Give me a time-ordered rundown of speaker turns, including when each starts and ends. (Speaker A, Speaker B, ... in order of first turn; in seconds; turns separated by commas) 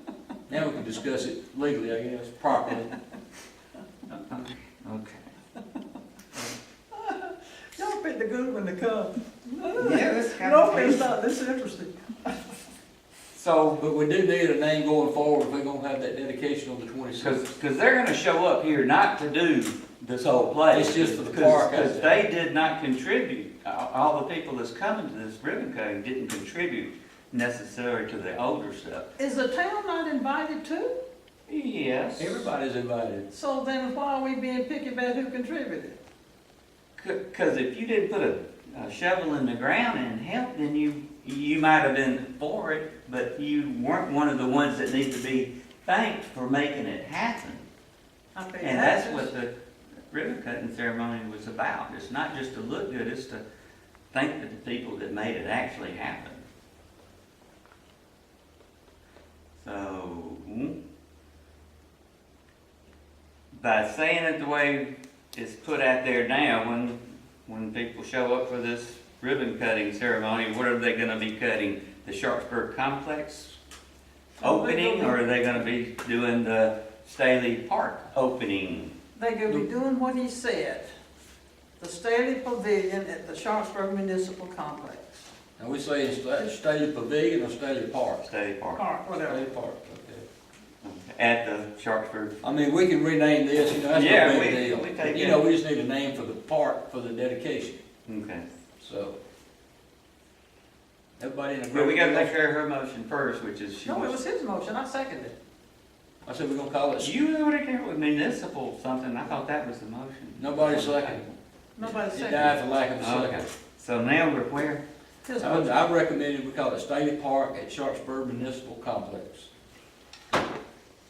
Speaker A: 0.5-2.9, Speaker B: 4.1-5.2, Speaker C: 6.9-11.9, Speaker B: 9.8-11.1, Speaker B: 13.3-13.8, Speaker A: 13.8-17.4, Speaker B: 17.2-29.1, Speaker A: 20.7-22.3, Speaker C: 29.2-30.9, Speaker B: 31.5-32.5, Speaker A: 32.2-33.2, Speaker C: 33.3-36.0, Speaker B: 37.0-47.6, Speaker C: 48.3-49.3, Speaker B: 48.6-49.5, Speaker B: 50.1-53.4, Speaker B: 54.1-56.4, Speaker B: 59.6-60.8, Speaker B: 63.5-73.5, Speaker C: 74.4-75.2, Speaker B: 74.4-78.9, Speaker C: 79.2-80.9, Speaker C: 81.8-85.2, Speaker A: 85.6-88.2, Speaker B: 88.2-88.8, Speaker C: 88.7-89.4, Speaker A: 89.2-90.2, Speaker B: 90.8-92.3, Speaker A: 92.4-97.8, Speaker B: 93.9-95.5, Speaker B: 98.0-98.5, Speaker A: 98.8-99.2, Speaker A: 101.2-102.3, Speaker B: 101.7-104.2, Speaker C: 103.8-105.3, Speaker A: 106.2-107.2, Speaker B: 107.0-111.3, Speaker A: 110.3-111.2, Speaker C: 111.8-112.5, Speaker A: 111.8-113.4, Speaker B: 113.0-114.8, Speaker C: 115.2-115.8, Speaker A: 115.4-119.5